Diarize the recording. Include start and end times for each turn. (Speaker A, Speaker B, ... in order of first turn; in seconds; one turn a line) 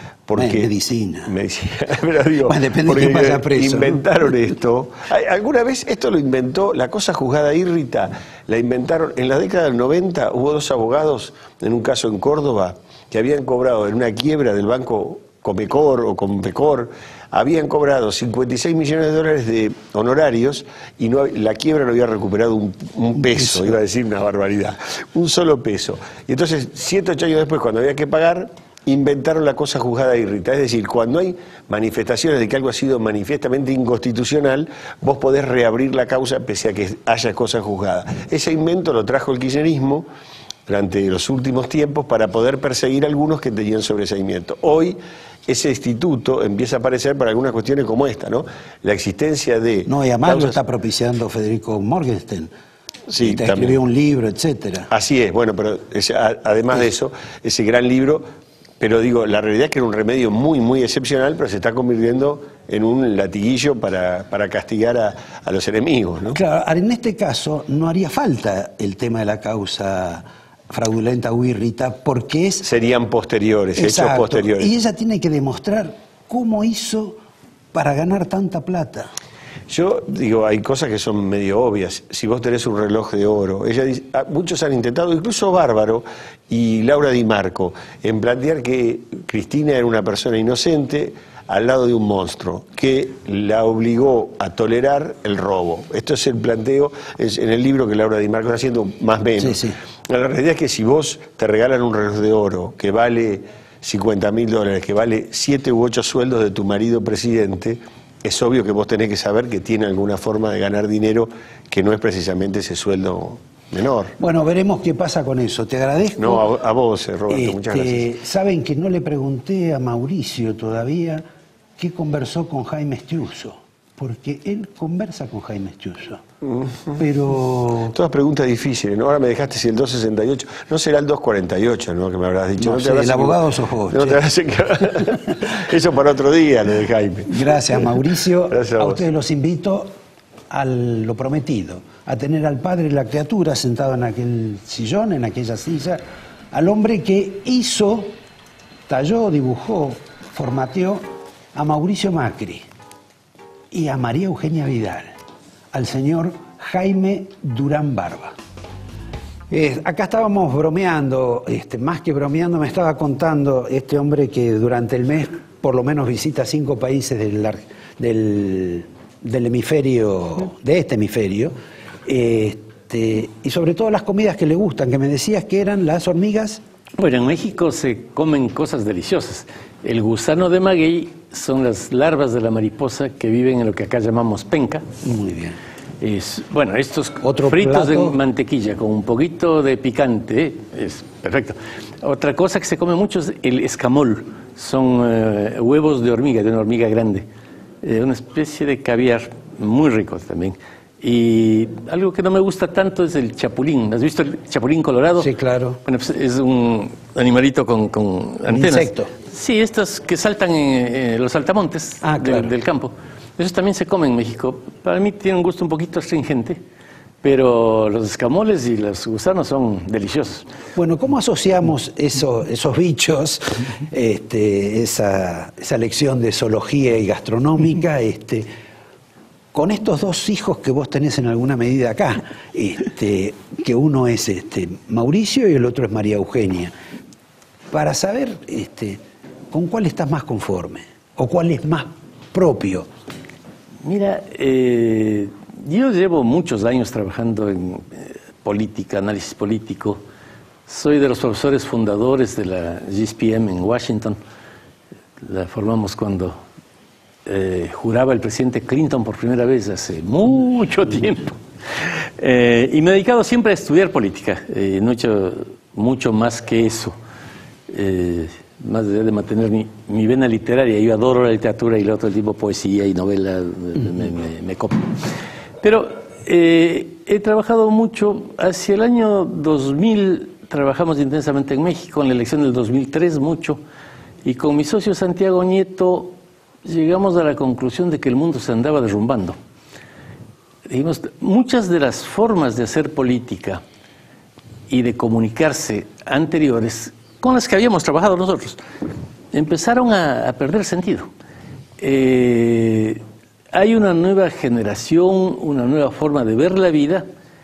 Speaker A: 0.3-0.7
Speaker B: 0.4-1.3
Speaker A: 1.3-40.1
Speaker B: 2.5-4.0
Speaker B: 23.2-23.8
Speaker A: 40.7-50.6
Speaker B: 49.9-52.5
Speaker A: 53.1-53.8
Speaker B: 53.2-54.9
Speaker A: 54.9-58.2
Speaker A: 58.8-66.4
Speaker B: 66.3-72.7
Speaker A: 72.6-74.7
Speaker B: 73.8-77.2
Speaker B: 77.7-79.1
Speaker A: 79.7-114.2
Speaker B: 99.4-99.8
Speaker B: 114.2-116.5
Speaker A: 116.2-118.1
Speaker B: 117.3-121.2
Speaker B: 121.8-126.2
Speaker A: 126.4-127.0
Speaker B: 127.0-128.0
Speaker A: 127.9-138.0
Speaker B: 132.6-134.2
Speaker B: 137.3-139.9
Speaker A: 138.5-139.1
Speaker B: 140.5-148.2
Speaker B: 148.9-152.7
Speaker B: 153.7-155.1
Speaker B: 155.7-158.4
Speaker B: 159.5-176.6
Speaker C: 177.0-184.8
Speaker B: 185.0-185.6
Speaker C: 186.0-197.2
Speaker B: 187.2-188.2
Speaker C: 197.8-205.3
Speaker B: 205.2-205.8
Speaker C: 205.8-216.6
Speaker B: 208.5-209.1
Speaker B: 212.0-212.5
Speaker C: 217.2-220.4
Speaker B: 220.8-228.5
Speaker B: 229.5-236.7
Speaker B: 237.7-242.9
Speaker C: 243.8-250.0
Speaker C: 250.7-254.2
Speaker C: 255.2-256.4
Speaker C: 257.3-261.4
Speaker C: 262.2-267.0
Speaker C: 267.7-274.9
Speaker C: 275.6-283.6
Speaker C: 284.2-289.4
Speaker C: 290.7-293.6
Speaker C: 294.7-298.6
Speaker C: 299.3-301.1
Speaker C: 301.8-307.1